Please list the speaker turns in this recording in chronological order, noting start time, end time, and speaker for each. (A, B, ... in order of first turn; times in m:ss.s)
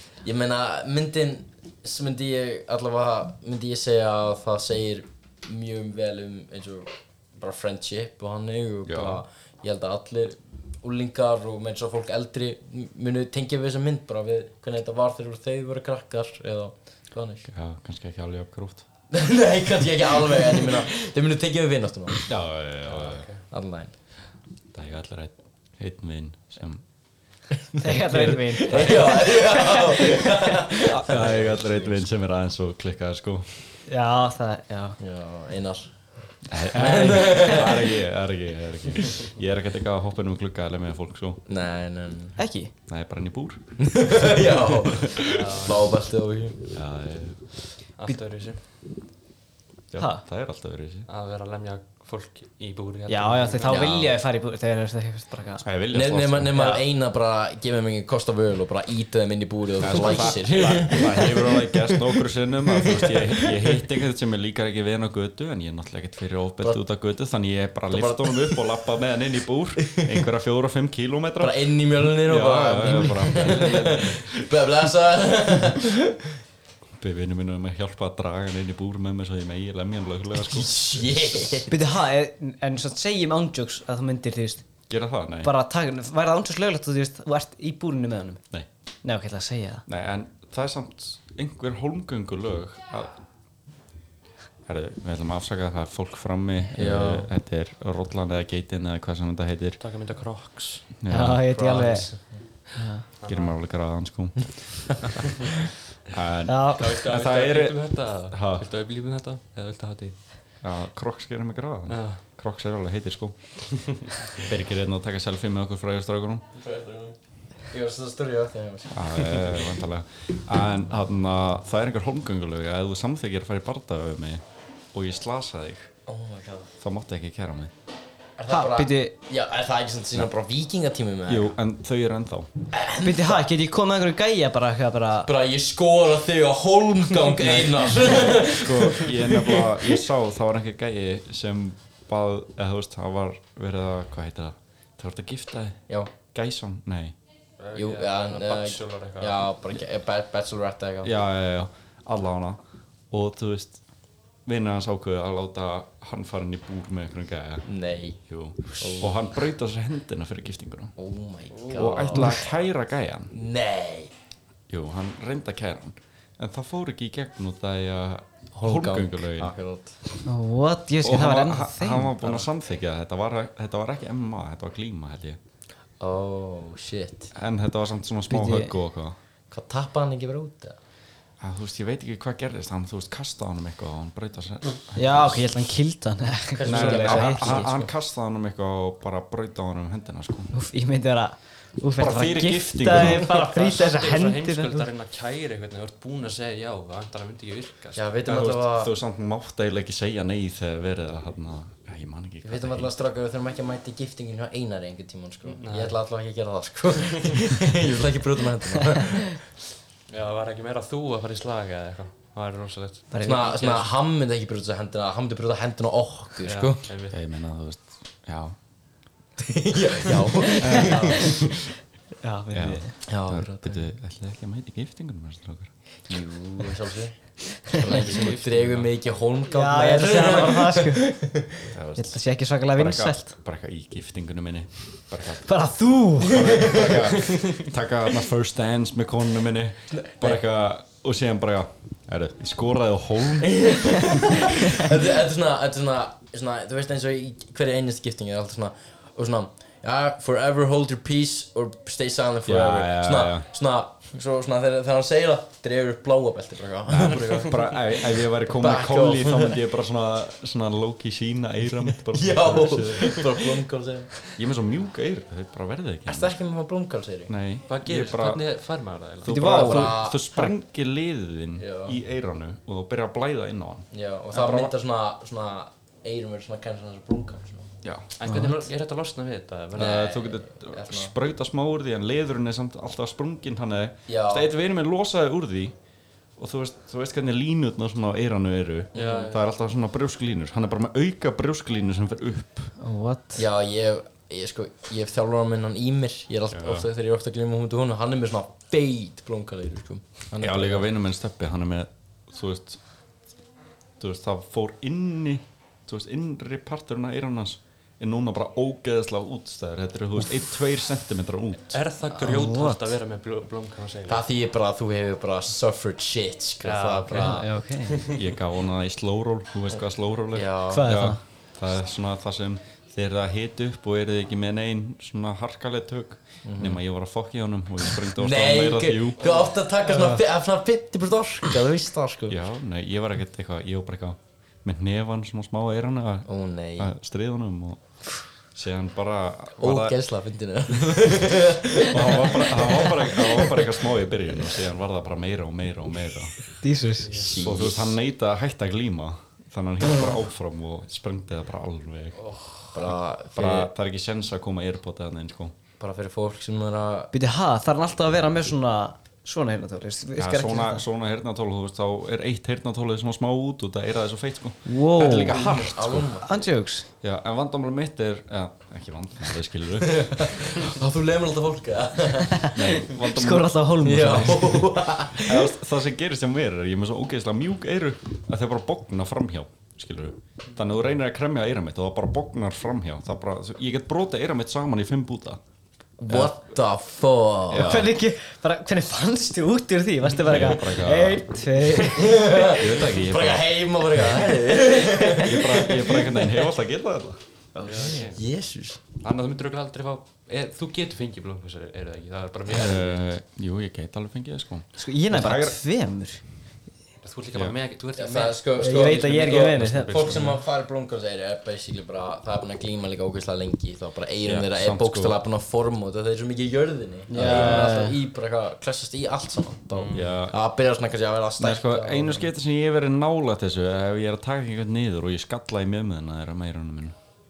0:00.2-0:17.5 A
0:08.9-0:09.2 B
0:17.5-0:18.9 B
0:19.1-0:22.3 A
0:22.2-0:23.3 B
0:22.9-0:23.4 C
0:23.5-0:23.9 A
0:24.7-0:26.8 B
0:27.8-0:30.6 D
0:27.9-0:29.2 B
0:28.6-0:31.8 A
0:30.8-0:33.5 B
0:33.9-0:35.0 D
0:35.0-0:35.9 A
0:36.5-0:41.4 B
0:36.7-0:38.0 A
0:41.5-0:42.4 A
0:42.4-0:42.7 D
0:42.9-0:43.6 B
0:43.8-0:46.6 A
0:45.0-0:45.2 B
0:45.2-0:45.9 C
0:46.7-0:47.4 B
0:48.0-0:48.6 C
0:49.9-0:51.1 B
0:50.0-0:50.2 D
0:51.1-0:53.9 C
0:53.1-0:55.7 D
0:53.6-0:54.2 B
0:55.6-0:56.6 B
0:55.9-1:01.7 A
0:56.5-0:56.8 D
0:59.8-1:14.4 B
0:59.9-1:01.2 D
1:02.7-1:03.4 A
1:07.9-1:08.7 A
1:09.9-1:10.2 A
1:11.4-1:16.2 A
1:17.0-1:21.7 B
1:20.4-1:21.7 A
1:21.7-1:24.6 D
1:24.9-1:25.5 B
1:25.4-1:28.4 D
1:29.0-1:29.8 D
1:29.9-1:33.2 B
1:34.7-1:39.8 B
1:36.8-1:37.2 C
1:39.8-1:40.9 C
1:41.0-1:41.5 B
1:41.1-1:42.1 D
1:41.6-1:42.2 C
1:42.8-1:43.0 D
1:43.2-1:43.5 C
1:43.3-1:44.9 B
1:46.1-1:47.8 B
1:46.5-1:46.9 D
1:46.8-1:50.2 C
1:48.3-1:48.6 B
1:50.6-1:53.4 B
1:51.9-1:52.2 C
1:54.4-1:56.4 B
1:56.6-1:57.2 A
1:57.7-1:59.2 A
1:58.9-2:04.4 B
2:04.9-2:05.9 B
2:06.1-2:06.7 A
2:06.8-2:07.7 B
2:08.4-2:11.5 A
2:08.5-2:09.1 D
2:11.3-2:12.5 B
2:12.7-2:13.4 A
2:13.0-2:15.3 D
2:15.3-2:19.8 A
2:18.0-2:27.2 B
2:27.6-2:29.5 C
2:27.8-2:31.1 A
2:31.0-2:32.6 B
2:33.1-2:33.8 B
2:34.4-2:37.7 B
2:37.7-2:38.2 A
2:38.3-2:41.0 B
2:38.8-2:39.1 A
2:41.0-2:42.4 A
2:41.5-2:41.9 C
2:41.7-2:43.3 B
2:42.2-2:42.4 D
2:43.3-2:44.1 A
2:44.7-2:49.5 B
2:48.6-2:50.0 A
2:50.2-2:52.3 D
2:51.0-2:55.4 B
2:56.0-2:57.3 A
2:57.3-2:59.2 B
2:58.3-2:58.7 D
2:59.5-3:00.8 A
3:01.4-3:05.5 B
3:05.0-3:07.7 D
3:06.6-3:07.9 A
3:06.6-3:10.5 B
3:10.5-3:14.9 D
3:12.0-3:13.4 B
3:13.0-3:18.1 C
3:18.0-3:18.9 A
3:18.3-3:22.9 B
3:22.4-3:29.4 A
3:25.4-3:26.0 C
3:30.1-3:33.9 C
3:33.1-3:33.5 D
3:33.2-3:36.8 A
3:36.4-3:37.2 C
3:37.1-3:38.6 B
3:39.4-3:41.4 A
3:40.6-3:41.6 B
3:40.6-3:41.0 D
3:40.7-3:41.3 C
3:42.2-3:43.0 D
3:42.5-3:45.7 B
3:43.1-3:43.8 A
3:46.1-3:51.7 A
3:47.7-3:48.9 B
3:49.5-3:51.3 D
3:51.7-3:52.2 B
3:52.0-3:53.3 D
3:52.8-3:55.5 B
3:55.4-3:56.7 D
3:56.2-4:04.6 B
3:56.4-3:57.6 A
3:59.9-4:00.4 A
4:03.5-4:19.5 A
4:12.5-4:13.5 B
4:16.9-4:23.3 B
4:22.1-4:24.2 A
4:24.3-4:26.4 B
4:26.1-4:27.3 A
4:27.3-4:28.4 B
4:27.7-4:29.4 C
4:29.2-4:34.7 B
4:29.3-4:30.4 D
4:29.4-4:30.5 A
4:31.6-4:32.0 A
4:33.9-4:37.7 A
4:37.8-4:38.1 B
4:38.2-4:40.0 C
4:38.3-4:38.6 D
4:39.8-4:45.7 B
4:39.8-4:41.1 A
4:44.1-4:44.5 A
4:46.4-4:52.7 B
4:48.9-4:49.5 A
4:49.0-4:49.2 C
4:52.8-4:53.4 D
4:53.4-5:00.9 A
4:56.5-4:56.9 B
5:00.4-5:02.8 B
5:04.0-5:11.8 B
5:11.7-5:14.3 C
5:12.2-5:13.0 D
5:14.1-5:17.5 A
5:16.6-5:18.2 C
5:17.1-5:18.0 D
5:18.1-5:29.3 B
5:20.3-5:20.9 A
5:20.7-5:21.2 D
5:26.4-5:26.8 A
5:27.9-5:32.4 A
5:29.9-5:30.2 D
5:32.3-5:37.8 B
5:36.3-5:36.9 A
5:38.5-5:40.0 B
5:39.6-5:43.8 A
5:41.7-5:46.4 B
5:46.6-5:47.2 D
5:47.0-5:47.6 C
5:47.1-5:48.0 A
5:47.4-5:52.2 B
5:52.2-5:52.5 C
5:52.7-5:53.7 A
5:52.8-5:55.6 B
5:55.8-5:57.1 A
5:57.1-6:00.8 D
6:00.2-6:06.2 B
6:04.6-6:05.4 D
6:05.1-6:06.5 A
6:05.3-6:05.6 C
6:06.2-6:06.9 D
6:07.0-6:10.6 B
6:09.8-6:12.8 A
6:12.4-6:14.5 B
6:12.5-6:14.7 D
6:13.8-6:15.5 A
6:15.1-6:25.4 B
6:26.0-6:27.9 A
6:26.1-6:26.3 B
6:27.5-6:27.9 B
6:27.5-6:32.3 D
6:30.2-6:31.3 B
6:31.9-6:36.5 A
6:32.0-6:34.3 B
6:35.1-6:37.2 B
6:37.6-6:38.0 D
6:37.6-6:38.2 C
6:38.2-6:38.8 A
6:39.0-6:43.1 C
6:42.5-6:45.9 B
6:44.8-6:46.2 D
6:47.0-6:50.4 C
6:48.0-7:02.3 A
6:48.6-6:50.2 D
6:54.2-6:55.2 B
6:57.1-6:58.0 D
6:57.1-6:57.8 B
6:59.7-7:00.1 C
6:59.9-7:00.4 B
7:01.4-7:07.0 B